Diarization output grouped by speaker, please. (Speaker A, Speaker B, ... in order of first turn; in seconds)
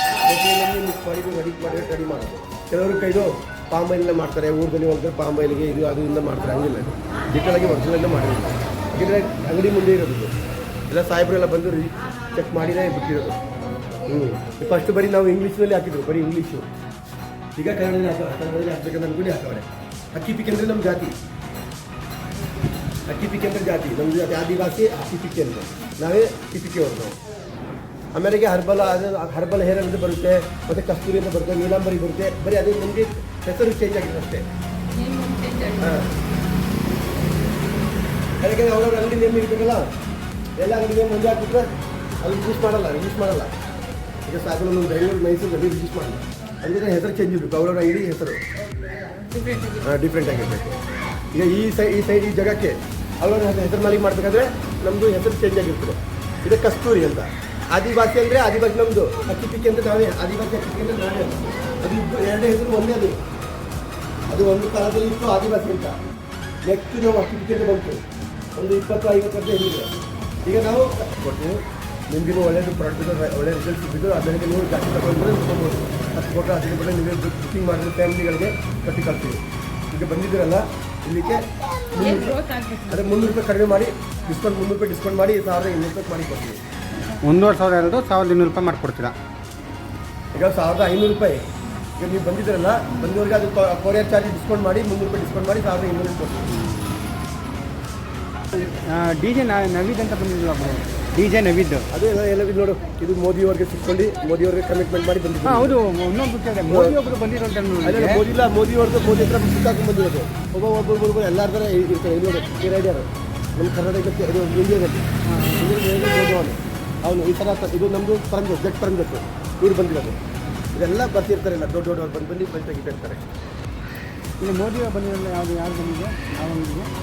Speaker A: 0.2-10.3, 10.9-13.4, 14.0-16.7, 17.6-21.1, 23.1-27.2, 28.1-34.5, 35.8-36.1, 38.4-39.9, 40.6-41.7, 42.2-43.5, 44.3-48.4, 49.8-50.8, 51.3-63.2, 64.3-66.0, 66.6-68.0, 68.6-69.9, 70.4-79.4, 79.9-82.4, 82.9-86.6, 90.3-91.4, 92.0-96.5, 101.9-105.8, 106.7-107.0, 107.8-115.0, 115.6-120.2, 120.7-123.2
Speaker B: 34.9-36.0, 48.8-50.5, 82.0-83.2
Speaker C: 87.2-89.1, 96.5-97.1, 98.5-101.9, 105.5-108.2, 115.3-115.8, 124.4-126.9